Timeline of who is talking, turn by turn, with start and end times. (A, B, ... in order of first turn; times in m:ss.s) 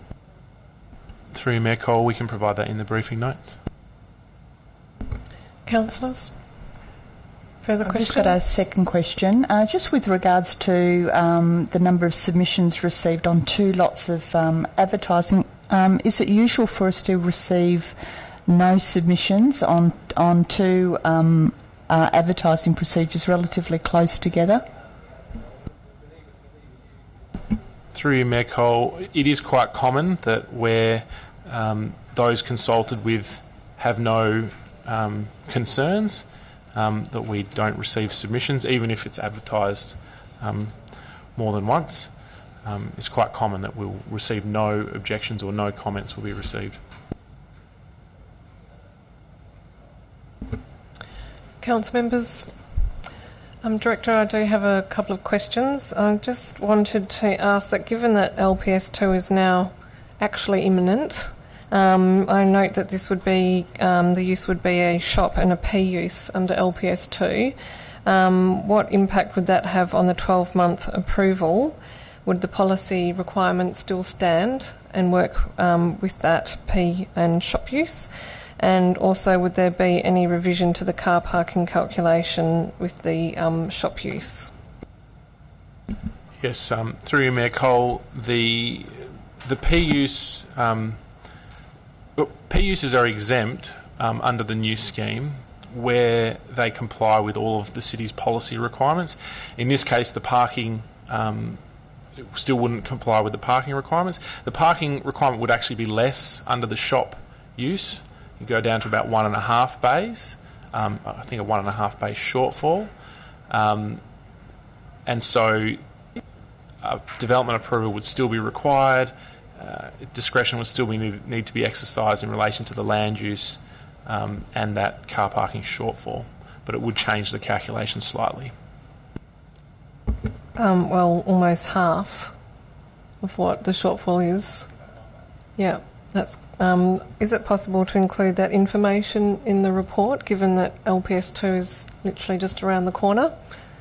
0:01.3-0:03.6 A
0:05.6-0:06.3 B
0:07.6-0:08.4 B
0:07.8-0:24.7 C
0:27.9-0:40.8 A
0:41.4-0:42.1 A
0:42.6-0:46.8 A
0:51.6-0:52.5 B
0:53.6-1:24.5 B
1:26.4-1:31.0 A
1:32.2-1:41.6 A
1:42.2-1:52.9 A
1:53.5-1:54.0 A
1:55.1-1:55.8 A
1:56.8-2:08.5 A
2:10.6-2:12.3 B
2:13.2-2:14.7 B
2:15.6-2:23.4 B